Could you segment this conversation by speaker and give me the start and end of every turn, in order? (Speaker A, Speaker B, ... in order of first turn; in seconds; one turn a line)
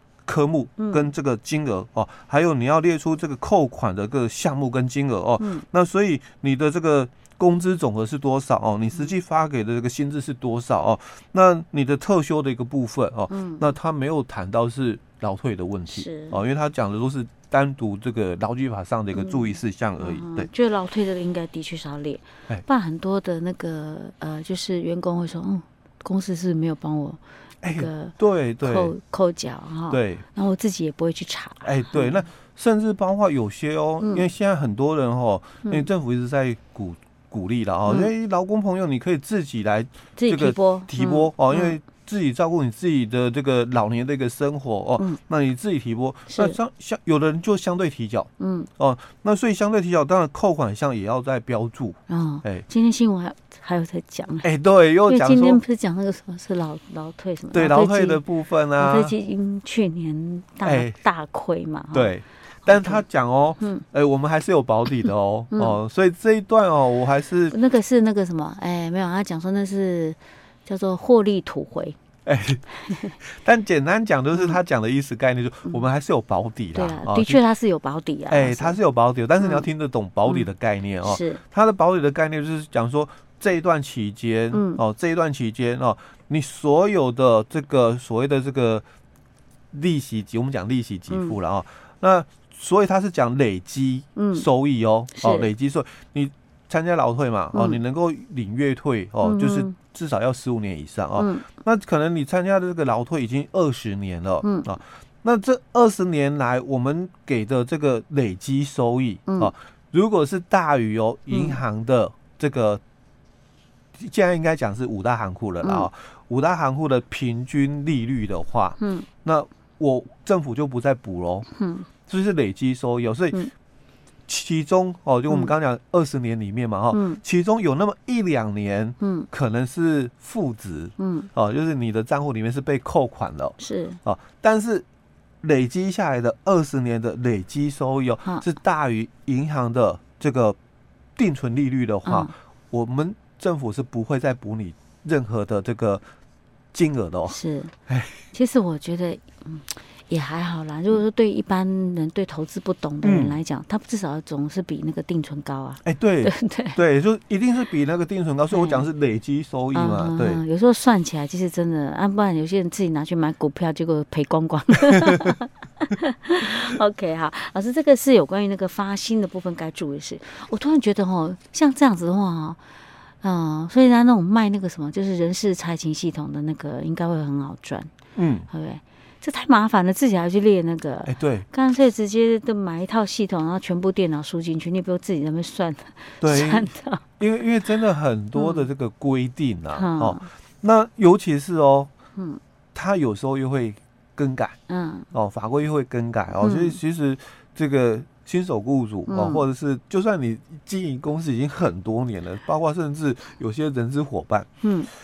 Speaker A: 0.2-20.5
Speaker B: 0.8-1.1
Speaker B: 5.4-5.7
Speaker B: 13.3-13.7
Speaker B: 15.9-16.4
Speaker B: 19.1-19.5
Speaker B: 20.0-32.3
Speaker A: 27.6-28.9
Speaker A: 29.9-30.2
Speaker A: 31.6-52.6
Speaker B: 40.2-41.8
Speaker B: 46.3-46.6
Speaker B: 48.4-48.7
Speaker B: 52.1-54.5
Speaker A: 54.4-55.6
Speaker B: 55.1-62.1
Speaker A: 57.5-59.2
Speaker A: 60.6-61.0
Speaker A: 61.9-67.5
Speaker B: 62.6-63.0
Speaker B: 63.6-63.9
Speaker B: 65.5-65.8
Speaker B: 67.5-72.0
Speaker A: 72.2-77.4
Speaker B: 74.3-74.6
Speaker B: 76.7-78.8
Speaker A: 78.3-88.8
Speaker B: 79.4-79.7
Speaker B: 81.0-81.4
Speaker B: 84.5-84.8
Speaker A: 89.7-112.8
Speaker B: 91.1-91.3
Speaker B: 94.2-94.5
Speaker B: 95.2-95.5
Speaker B: 97.5-97.8
Speaker B: 99.2-99.8
Speaker B: 101.2-101.5
Speaker B: 111.3-111.6
Speaker A: 113.9-121.5
Speaker B: 115.6-115.9
Speaker B: 118.8-119.1
Speaker B: 121.6-121.9
Speaker A: 122.1-123.4
Speaker A: 124.3-134.8
Speaker B: 126.9-127.2
Speaker B: 129.0-129.3
Speaker B: 131.0-131.3
Speaker B: 133.6-134.0
Speaker A: 135.4-140.6
Speaker A: 141.2-146.0
Speaker B: 142.1-142.3
Speaker A: 146.7-148.3
Speaker B: 147.3-147.7
Speaker B: 148.3-156.8
Speaker A: 153.0-153.4
Speaker A: 155.8-160.4
Speaker B: 158.5-158.8
Speaker B: 159.7-172.6
Speaker B: 173.2-177.9
Speaker A: 178.2-178.5
Speaker B: 178.5-187.0
Speaker A: 181.1-181.5
Speaker A: 186.2-191.9
Speaker B: 188.3-188.7
Speaker B: 189.7-190.3
Speaker B: 192.2-192.4
Speaker A: 192.7-194.6
Speaker B: 194.7-195.1
Speaker A: 195.1-204.5
Speaker B: 196.4-196.8
Speaker B: 199.1-199.4
Speaker B: 204.6-204.9